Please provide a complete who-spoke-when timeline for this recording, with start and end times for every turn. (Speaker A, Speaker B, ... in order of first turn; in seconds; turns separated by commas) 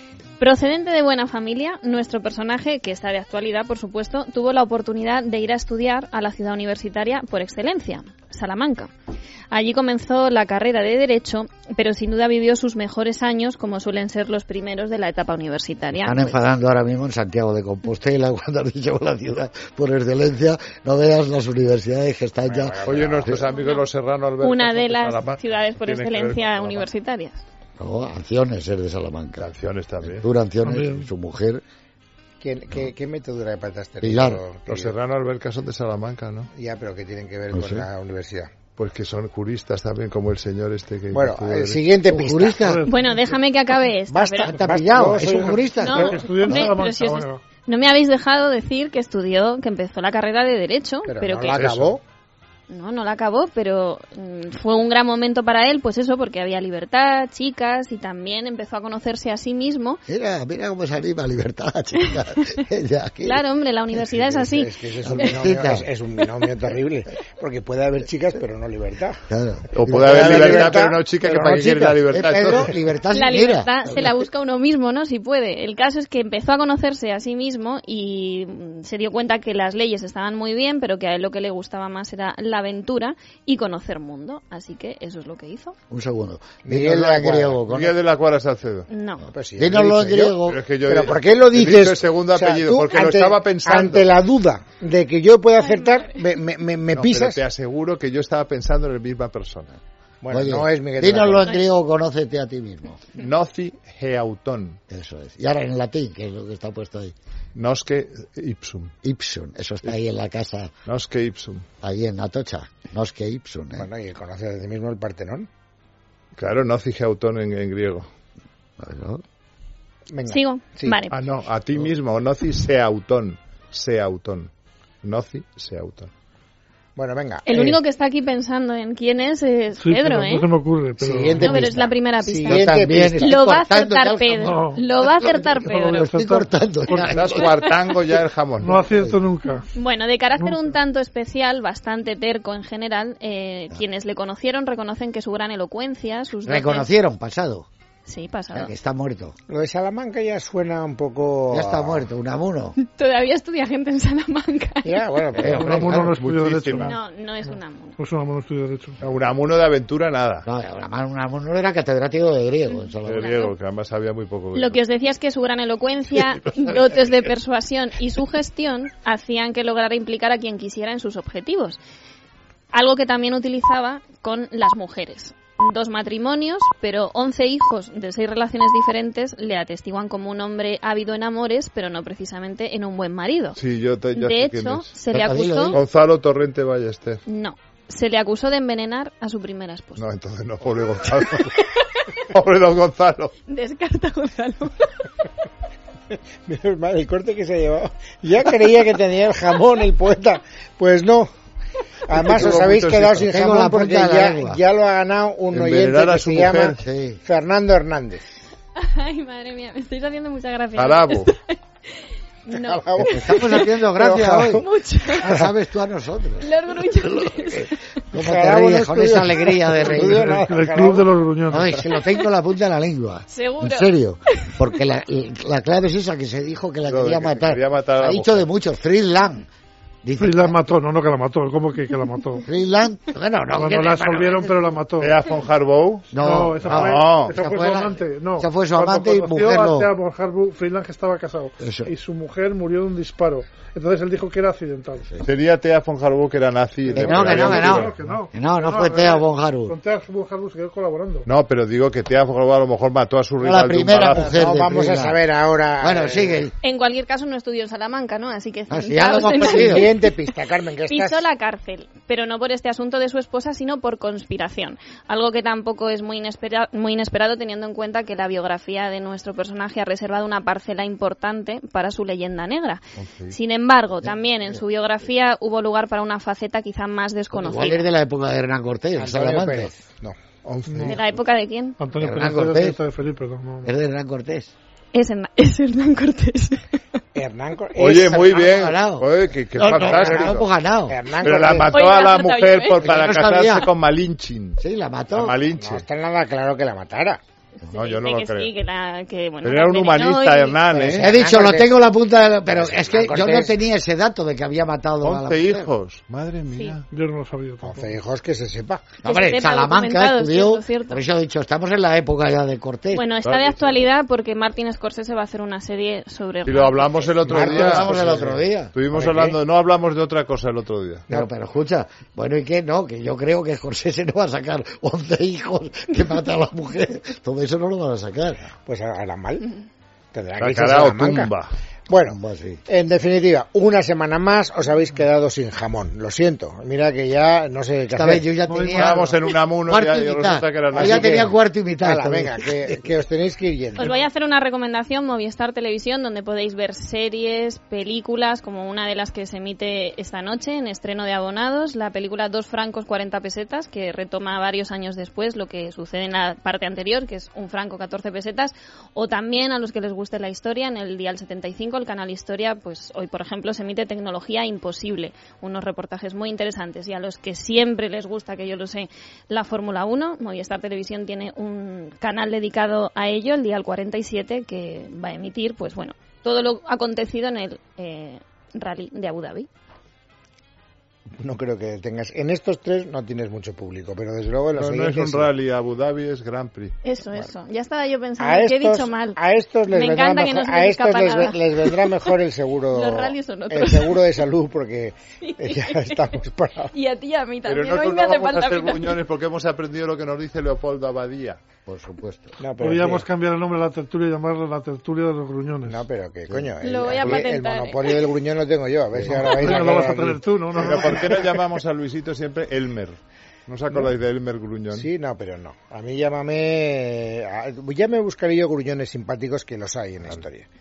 Speaker A: 0.4-8.9, Speaker A: 9.5-16.4, Speaker B: 16.0-23.5, Speaker C: 22.4-23.4, Speaker D: 22.9-26.9, Speaker A: 23.5-23.9, Speaker A: 24.4-27.4, Speaker B: 27.8-29.5, Speaker D: 29.4-30.3, Speaker B: 30.0-31.6, Speaker E: 30.6-31.1, Speaker C: 32.4-35.0, Speaker B: 34.0-34.4, Speaker D: 34.7-36.5, Speaker C: 36.5-38.5, Speaker B: 37.5-37.9, Speaker D: 38.8-41.8, Speaker C: 41.1-42.6, Speaker B: 42.1-42.9, Speaker E: 42.6-43.4, Speaker A: 42.9-44.6, Speaker C: 44.1-46.2, Speaker B: 44.5-46.7, Speaker A: 45.8-51.6, Speaker E: 46.0-47.4, Speaker C: 51.0-52.0, Speaker D: 51.5-52.0, Speaker A: 52.7-60.0, Speaker B: 60.1-63.4, Speaker A: 63.2-64.7, Speaker C: 64.1-69.2, Speaker B: 65.0-65.9, Speaker B: 69.3-70.7, Speaker D: 69.7-72.7, Speaker C: 69.8-72.0, Speaker B: 72.0-74.1, Speaker A: 73.1-85.8, Speaker B: 85.9-88.0, Speaker C: 86.7-87.6, Speaker D: 87.7-88.9, Speaker A: 88.9-89.2, Speaker C: 89.2-97.4, Speaker B: 89.6-90.6, Speaker D: 90.5-94.1, Speaker A: 95.6-96.2, Speaker D: 96.9-99.8, Speaker C: 100.2-101.6, Speaker B: 100.3-103.1, Speaker D: 103.2-104.8, Speaker B: 104.9-107.2, Speaker D: 107.5-108.9, Speaker B: 109.0-110.7, Speaker D: 110.9-111.7, Speaker B: 111.8-113.9, Speaker C: 113.7-115.5, Speaker D: 116.4-118.1, Speaker B: 118.8-119.2, Speaker C: 120.1-121.0, Speaker A: 120.3-121.1, Speaker D: 121.1-124.5, Speaker D: 125.0-126.1, Speaker C: 127.0-127.8, Speaker A: 127.5-130.5, Speaker E: 129.8-131.5, Speaker C: 131.0-133.3, Speaker A: 131.4-136.1, Speaker B: 132.5-137.5, Speaker E: 134.4-134.8, Speaker E: 135.6-137.2, Speaker D: 136.9-138.8, Speaker A: 137.4-137.7, Speaker E: 138.6-139.7, Speaker B: 138.9-139.2, Speaker A: 139.5-146.9, Speaker E: 140.4-140.7, Speaker B: 146.4-147.7, Speaker A: 148.1-148.7, Speaker B: 148.5-149.3, Speaker C: 149.5-152.1, Speaker B: 151.5-152.8, Speaker A: 152.8-155.0, Speaker C: 154.8-155.6, Speaker B: 155.3-156.2, Speaker D: 155.4-157.0, Speaker E: 155.5-156.9, Speaker A: 156.8-158.0, Speaker E: 158.0-159.0, Speaker D: 159.0-160.5, Speaker B: 160.4-163.4, Speaker D: 163.1-164.8, Speaker A: 163.2-163.5, Speaker A: 164.6-171.8, Speaker A: 172.7-183.6, Speaker D: 183.6-184.9, Speaker A: 184.1-185.8, Speaker B: 185.1-185.8, Speaker D: 185.7-187.2, Speaker A: 187.3-190.0, Speaker D: 190.0-191.7, Speaker D: 192.2-193.3, Speaker A: 193.5-195.1, Speaker C: 196.5-201.3, Speaker C: 202.1-208.2, Speaker D: 202.1-203.3, Speaker B: 203.2-204.6, Speaker D: 205.5-206.8, Speaker B: 206.8-207.2, Speaker A: 208.8-213.6, Speaker D: 210.8-211.3, Speaker C: 212.5-214.7, Speaker B: 213.1-214.6, Speaker A: 214.6-215.4, Speaker B: 215.2-220.4, Speaker A: 216.4-217.8, Speaker C: 218.1-221.1, Speaker E: 220.1-221.7, Speaker B: 221.5-229.5, Speaker A: 223.3-224.5, Speaker D: 226.9-228.5, Speaker B: 230.0-230.6, Speaker E: 230.2-232.4, Speaker B: 232.4-234.8, Speaker E: 233.5-235.3, Speaker D: 235.0-236.1, Speaker B: 236.1-239.9, Speaker E: 236.1-245.1, Speaker D: 236.6-237.4, Speaker B: 241.6-241.9, Speaker D: 245.2-248.2, Speaker B: 246.9-249.8, Speaker E: 246.9-251.3, Speaker D: 251.3-254.4, Speaker B: 253.4-255.2, Speaker C: 254.2-256.4, Speaker B: 255.8-256.5, Speaker A: 256.6-259.9, Speaker B: 258.7-259.9, Speaker C: 259.3-261.3, Speaker A: 260.9-277.8, Speaker D: 273.0-273.4, Speaker B: 277.3-279.7, Speaker C: 279.0-280.2, Speaker D: 280.4-281.0, Speaker E: 280.7-281.0, Speaker A: 280.9-281.8, Speaker E: 281.8-283.7, Speaker B: 282.0-282.8, Speaker B: 283.6-284.5, Speaker A: 284.9-286.8, Speaker C: 287.1-288.5, Speaker D: 287.8-290.5, Speaker B: 288.3-291.0, Speaker C: 289.8-290.4, Speaker C: 290.9-291.8, Speaker D: 291.2-294.6, Speaker A: 291.7-293.0, Speaker B: 292.8-293.7, Speaker B: 294.6-295.4, Speaker D: 295.1-295.9, Speaker C: 295.5-297.2, Speaker A: 297.6-300.6, Speaker D: 297.8-298.5, Speaker D: 299.4-301.1, Speaker C: 300.7-301.7, Speaker B: 300.9-305.7, Speaker C: 302.5-303.5, Speaker D: 305.0-306.9, Speaker A: 306.5-306.8, Speaker E: 306.9-307.9, Speaker C: 307.6-308.9, Speaker A: 309.0-311.0, Speaker B: 309.0-313.1, Speaker A: 312.9-317.2, Speaker D: 313.2-313.8, Speaker D: 316.4-321.1, Speaker C: 317.3-318.4, Speaker B: 317.3-319.2, Speaker C: 318.9-319.4, Speaker B: 321.1-328.6, Speaker C: 328.7-329.5, Speaker C: 330.1-331.3, Speaker D: 330.4-331.6, Speaker C: 331.9-338.3, Speaker B: 332.1-332.6, Speaker B: 337.9-342.9, Speaker E: 338.5-339.0, Speaker D: 338.6-341.3, Speaker C: 340.7-343.9, Speaker A: 343.8-379.5, Speaker C: 381.2-385.3, Speaker D: 384.6-386.8, Speaker A: 386.8-389.2, Speaker C: 388.2-396.7, Speaker A: 389.7-392.2, Speaker A: 392.7-394.0, Speaker A: 395.2-396.1, Speaker A: 396.7-399.0, Speaker D: 397.5-401.4, Speaker B: 401.7-402.4, Speaker C: 402.4-403.1, Speaker E: 402.6-405.8, Speaker C: 405.7-410.2, Speaker A: 406.6-408.1, Speaker B: 408.9-409.5, Speaker E: 409.3-411.5, Speaker D: 410.5-414.9, Speaker C: 414.7-420.5